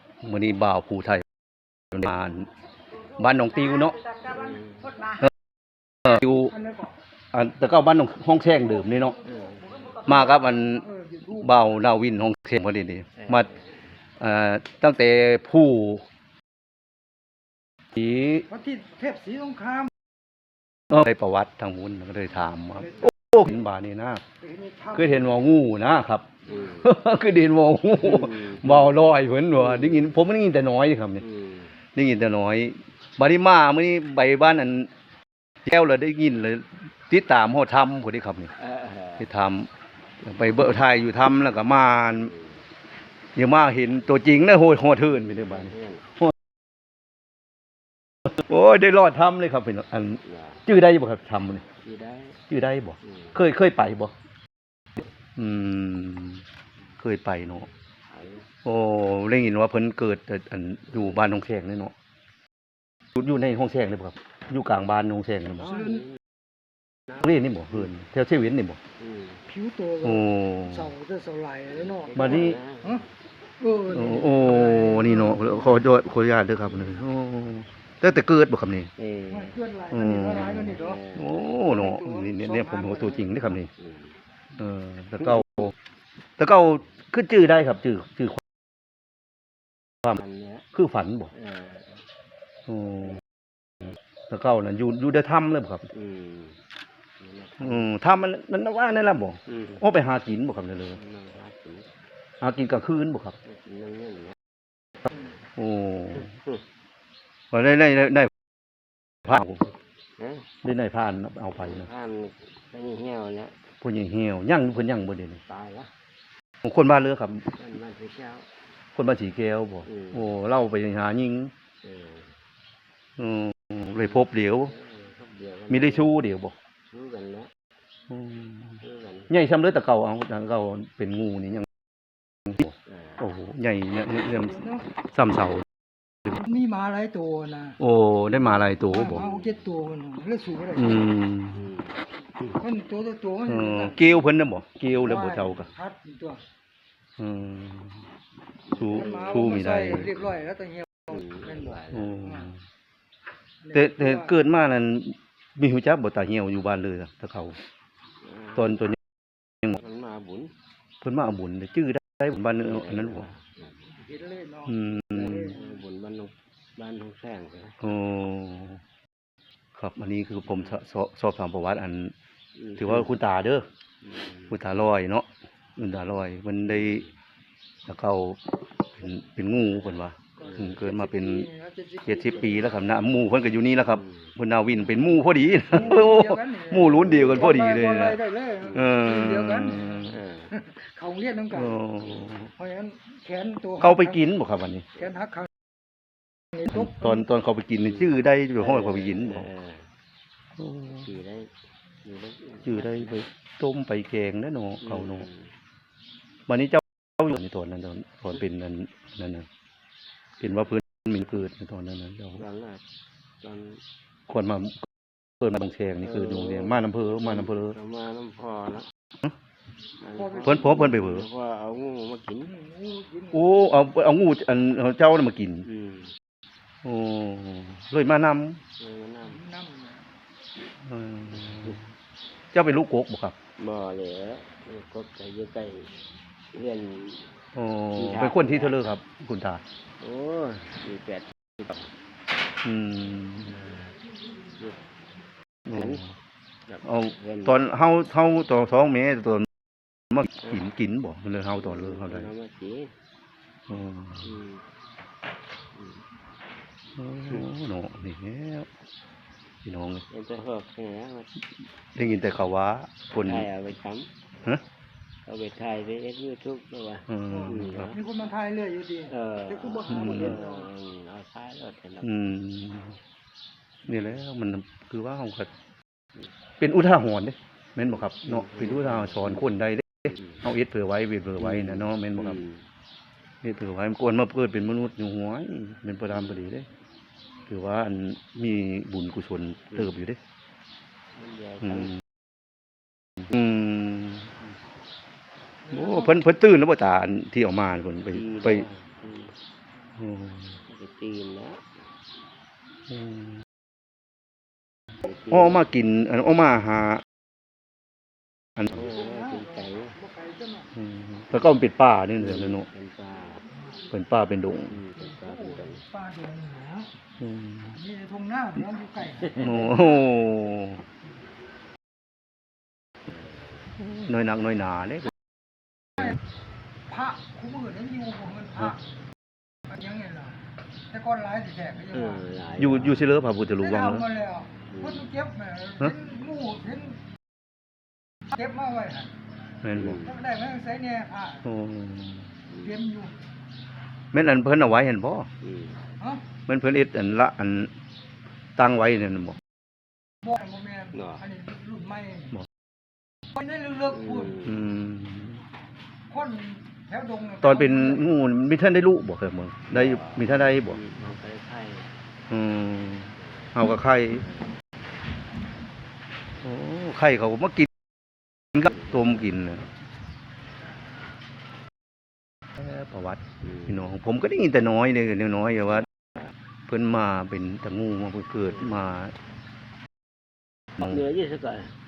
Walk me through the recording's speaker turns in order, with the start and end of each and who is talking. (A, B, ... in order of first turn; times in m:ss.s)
0:00.2-0:01.2 A
0:01.9-0:02.5 A
0:03.1-0:04.0 A
0:04.2-0:05.0 B
0:06.0-0:06.6 A
0:06.5-0:06.9 C
0:07.3-0:09.2 A
0:09.2-0:10.0 B
0:10.0-0:13.5 A
0:10.2-0:11.5 C
0:13.2-0:13.7 B
0:14.2-0:16.0 A
0:17.9-0:18.4 A
0:18.5-0:19.9 C
0:20.9-0:24.2 A
0:22.8-0:23.2 C
0:24.4-0:25.4 C
0:24.9-0:31.2 A
0:26.5-0:26.9 B
0:28.0-0:29.0 B
0:29.7-0:30.0 B
0:31.2-0:31.7 B
0:31.9-0:34.9 A
0:35.6-0:38.5 A
0:38.6-0:39.3 B
0:39.2-0:39.7 A
0:40.2-0:42.3 A
0:42.1-0:42.6 B
0:43.3-0:46.3 A
0:45.2-0:46.1 B
0:48.3-0:51.6 A
0:50.2-0:50.6 B
0:51.8-0:52.4 B
0:52.5-0:54.1 A
0:53.0-0:53.3 B
0:55.4-0:56.4 A
0:57.0-0:57.7 A
0:58.0-0:58.5 B
0:58.6-1:01.9 A
1:03.2-1:05.9 A
1:05.7-1:06.1 B
1:07.2-1:08.8 A
1:09.0-1:09.4 B
1:09.5-1:13.0 C
1:10.0-1:10.9 A
1:11.7-1:13.1 B
1:12.2-1:12.6 A
1:13.6-1:15.5 C
1:13.9-1:18.9 A
1:19.0-1:19.6 B
1:19.3-1:21.0 C
1:19.9-1:23.7 A
1:20.5-1:21.4 B
1:21.6-1:23.5 C
1:23.8-1:24.1 B
1:24.6-1:25.7 A
1:26.4-1:28.4 A
1:30.2-1:30.6 B
1:30.7-1:31.3 A
1:31.3-1:32.0 B
1:32.7-1:33.2 A
1:34.3-1:35.9 A
1:35.9-1:36.6 B
1:37.2-1:37.9 B
1:37.6-1:41.0 A
1:40.9-1:41.9 B
1:42.4-1:43.4 A
1:43.4-1:44.4 B
1:45.6-1:46.3 A
1:47.5-1:48.3 A
1:49.2-1:49.6 A
1:50.2-1:50.5 B
1:50.6-1:51.9 A
1:51.6-1:53.5 B
1:53.8-1:55.4 A
1:55.4-1:55.9 B
1:56.6-1:57.5 A
1:57.5-1:58.5 B
1:58.9-2:01.5 A
1:59.8-2:00.3 B
2:01.8-2:02.3 B
2:03.2-2:04.7 A
2:04.0-2:06.1 B
2:05.7-2:06.5 A
2:06.9-2:07.5 B
2:08.1-2:11.7 A
2:08.8-2:09.3 B
2:12.5-2:15.6 A
2:12.9-2:13.2 B
2:14.4-2:14.8 C
2:16.3-2:17.8 C
2:17.8-2:19.2 A
2:18.6-2:21.0 C
2:19.1-2:19.5 B
2:20.7-2:21.6 A
2:21.5-2:21.9 B
2:22.6-2:24.2 C
2:23.4-2:25.7 A
2:24.9-2:26.4 C
2:27.2-2:28.0 A
2:28.7-2:29.4 B
2:28.8-2:30.2 A
2:28.9-2:32.5 C
2:31.1-2:32.2 B
2:31.9-2:32.5 A
2:33.6-2:34.3 C
2:33.7-2:37.6 A
2:38.2-2:38.8 B
2:38.6-2:39.0 A
2:39.7-2:40.5 B
2:41.0-2:43.3 A
2:42.6-2:43.9 B
2:44.0-2:45.6 C
2:44.7-2:45.6 A
2:45.1-2:47.8 B
2:47.8-2:48.8 A
2:49.7-2:52.1 A
2:52.6-2:53.1 B
2:52.8-2:53.7 A
2:54.0-2:54.5 B
2:54.5-2:57.1 A
2:57.9-2:58.4 A
2:58.9-3:01.5 A
3:00.4-3:02.6 C
3:02.0-3:10.2 A
3:03.9-3:04.3 B
3:05.7-3:11.8 C
3:10.1-3:10.5 B
3:11.5-3:12.5 A
3:12.6-3:14.2 C
3:13.8-3:14.8 A
3:15.0-3:15.5 C
3:16.7-3:19.5 A
3:18.1-3:19.9 B
3:20.6-3:21.1 A
3:21.0-3:21.5 B
3:22.0-3:23.2 B
3:22.6-3:25.3 A
3:24.8-3:25.5 B
3:26.5-3:29.5 A
3:30.4-3:32.4 A
3:32.4-3:32.8 B
3:33.4-3:33.8 B
3:34.3-3:34.8 A
3:35.4-3:37.8 A
3:36.0-3:38.9 B
3:40.0-3:42.5 B
3:40.4-3:40.8 C
3:40.4-3:41.2 A
3:42.5-3:43.7 C
3:43.3-3:45.7 A
3:45.7-3:46.1 B
3:46.8-3:48.6 A
3:48.8-3:49.4 B
3:49.4-3:50.0 C
3:50.8-3:51.8 A
3:52.5-3:53.4 A
3:53.6-3:57.3 B
3:57.5-3:59.6 A
3:57.9-3:59.0 B
4:00.0-4:01.9 B
4:02.6-4:03.6 A
4:03.5-4:03.9 B
4:04.5-4:04.8 B
4:05.7-4:06.1 B
4:06.7-4:07.6 B
4:06.8-4:09.5 A
4:10.1-4:12.3 A
4:11.6-4:12.9 B
4:13.7-4:14.2 A
4:14.2-4:14.6 B
4:15.7-4:16.0 B
4:17.0-4:18.7 A
4:19.6-4:20.0 A
4:20.1-4:21.3 B
4:21.9-4:23.5 A
4:23.1-4:24.1 B
4:25.2-4:28.0 B
4:27.1-4:27.9 A
4:27.3-4:30.7 C
4:29.1-4:32.2 B
4:29.9-4:30.4 A
4:32.0-4:33.0 A
4:33.8-4:35.5 A
4:36.6-4:42.4 A
4:38.3-4:39.3 B
4:41.6-4:42.6 B
4:43.4-4:46.7 A
4:47.5-4:50.2 A
4:51.1-4:51.9 B
4:53.3-4:54.3 A
4:55.7-4:56.1 C
4:55.7-4:58.6 A
4:58.1-4:59.3 B
5:00.0-5:00.6 A
5:00.7-5:01.7 B
5:02.9-5:03.3 A
5:05.0-5:05.7 B
5:05.3-5:07.0 A
5:08.7-5:10.0 B
5:08.8-5:10.7 C
5:10.8-5:12.7 A
5:12.2-5:13.4 B
5:13.9-5:14.8 A
5:14.7-5:15.8 B
5:15.0-5:16.9 C
5:17.2-5:17.8 A
5:17.8-5:19.4 C
5:19.3-5:19.8 B
5:19.3-5:20.8 A
5:23.1-5:23.7 B
5:23.8-5:25.1 A
5:26.9-5:28.8 C
5:29.7-5:30.4 C
5:30.9-5:32.2 C
5:31.9-5:33.0 B
5:32.6-5:34.0 A
5:33.6-5:37.0 C
5:34.7-5:35.1 B
5:38.3-5:39.1 C
5:39.6-5:40.0 A
5:39.8-5:40.2 B
5:40.0-5:41.4 C
5:41.4-5:42.3 A
5:42.5-5:42.8 B
5:42.6-5:43.1 C
5:44.1-5:45.3 A
5:45.4-5:45.8 B
5:46.5-5:47.7 A
5:48.6-5:49.4 A
5:50.2-5:52.3 C
5:50.9-5:51.2 B
5:53.3-5:54.2 C
5:53.9-5:54.6 B
5:54.4-5:55.4 A
5:56.1-5:58.1 C
5:57.4-6:00.8 A
5:59.7-6:01.9 B
6:02.3-6:04.2 A
6:03.2-6:03.5 B
6:06.4-6:07.7 A
6:08.5-6:09.6 A
6:08.6-6:09.1 B
6:12.6-6:15.9 A
6:16.7-6:19.1 A
6:20.8-6:21.7 B